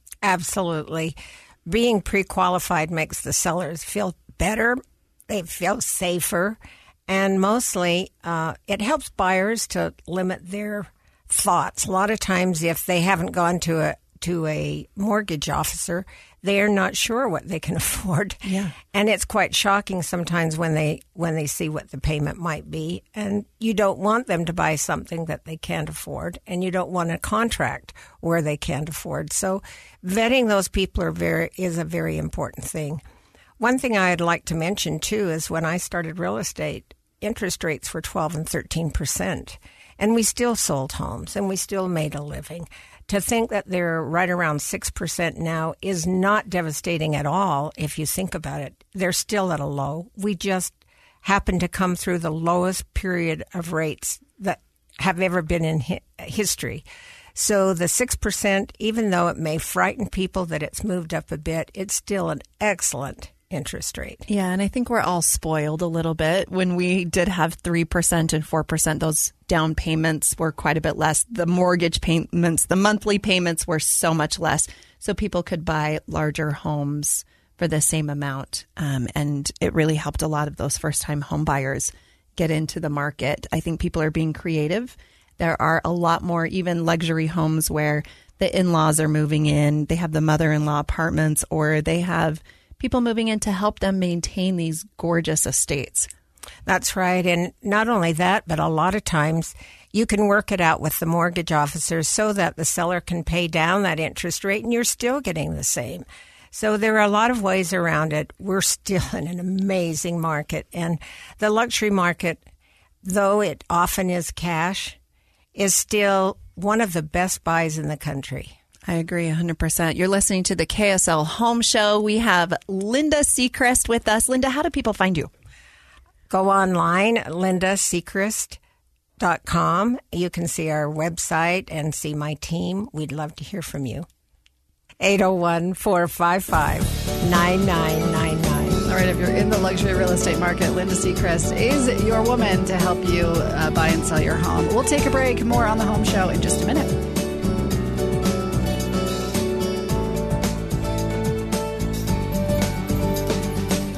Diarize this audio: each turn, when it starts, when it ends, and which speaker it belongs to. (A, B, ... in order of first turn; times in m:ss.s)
0:00.2-0:33.0 A
0:18.4-0:18.7 B
0:33.6-1:04.2 A
1:04.3-1:36.1 B
1:36.7-1:52.4 A
1:53.0-1:55.0 A
1:55.6-1:58.6 A
1:58.9-2:05.3 B
2:06.3-2:08.6 A
2:09.2-2:14.1 A
2:15.0-2:18.8 A
2:18.9-2:26.9 C